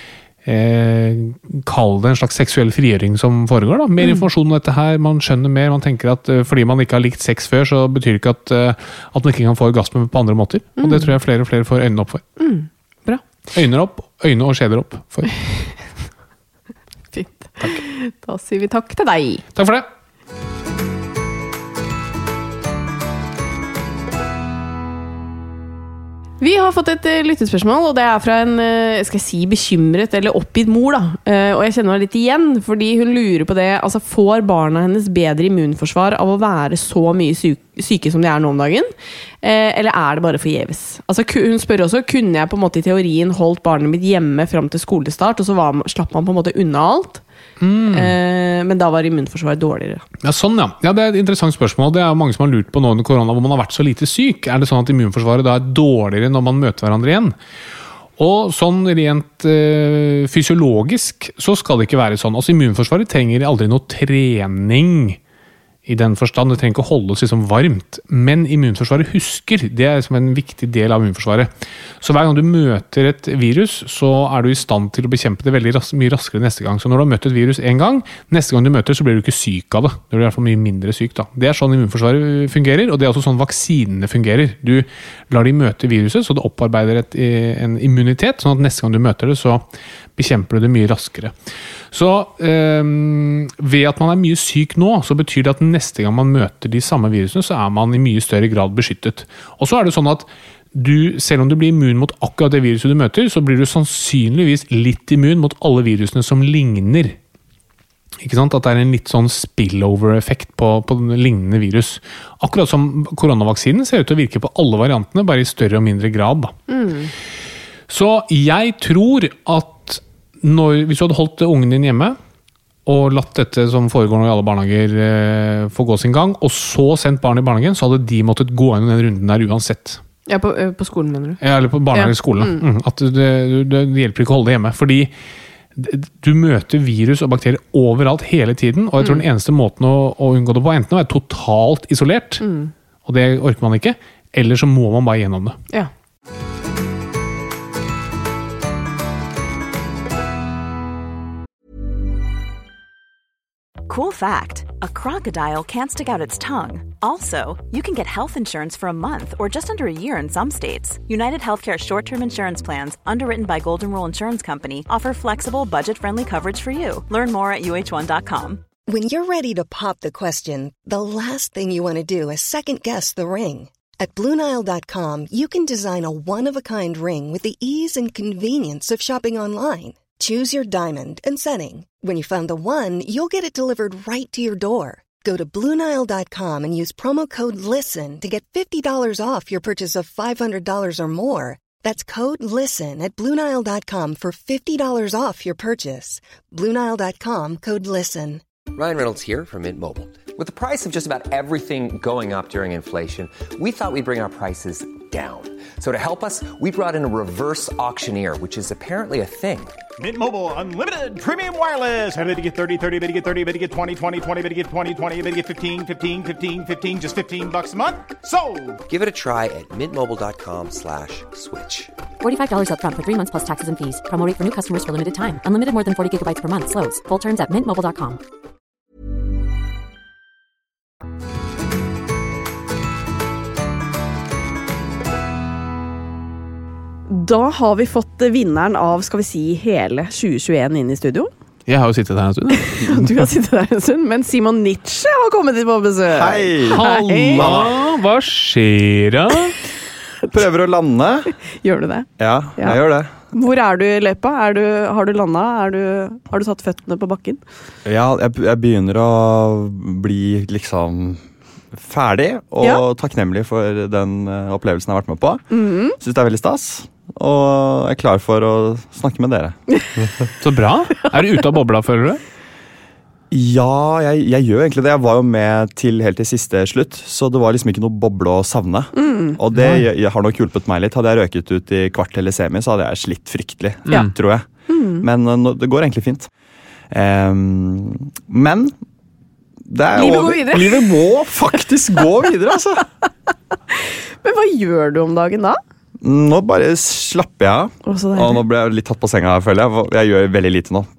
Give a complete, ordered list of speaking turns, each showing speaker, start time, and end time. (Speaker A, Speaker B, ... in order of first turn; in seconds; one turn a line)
Speaker A: 0.4-12.2
Speaker B: 10.8-11.1
Speaker B: 12.4-13.2
Speaker A: 13.5-15.3
Speaker B: 17.1-19.4
Speaker A: 19.6-19.9
Speaker B: 26.4-38.9
Speaker B: 39.4-47.2
Speaker A: 47.6-48.1
Speaker B: 47.9-50.0
Speaker A: 50.2-57.3
Speaker A: 58.2-65.2
Speaker A: 65.8-71.5
Speaker A: 72.0-89.7
Speaker A: 90.2-91.3
Speaker A: 91.9-107.2
Speaker A: 108.2-116.6
Speaker B: 116.7-117.1
Speaker A: 117.9-122.2
Speaker A: 122.8-130.0
Speaker B: 130.3-131.4
Speaker A: 131.4-135.1
Speaker B: 131.9-132.6
Speaker A: 135.8-142.4
Speaker B: 142.4-142.7
Speaker A: 143.0-145.6
Speaker C: 153.9-168.6
Speaker D: 168.9-198.4
Speaker E: 198.7-209.8
Speaker F: 210.0-218.8
Speaker E: 218.8-221.9
Speaker G: 222.2-228.2
Speaker B: 237.1-241.3
Speaker A: 241.7-243.0
Speaker B: 242.6-247.6
Speaker H: 246.1-247.8
Speaker A: 246.7-249.6
Speaker H: 250.3-251.3
Speaker B: 251.5-252.8
Speaker H: 252.2-253.1
Speaker B: 253.3-257.4
Speaker H: 257.9-261.2
Speaker H: 261.7-265.4
Speaker B: 265.5-266.0
Speaker H: 266.0-270.1
Speaker A: 270.4-272.2
Speaker H: 273.3-284.5
Speaker B: 278.9-279.4
Speaker A: 279.5-279.9
Speaker B: 284.7-285.1
Speaker H: 285.0-286.3
Speaker H: 286.9-288.7
Speaker H: 289.7-292.9
Speaker B: 289.9-290.9
Speaker B: 293.7-295.6
Speaker H: 296.0-300.9
Speaker B: 297.9-298.4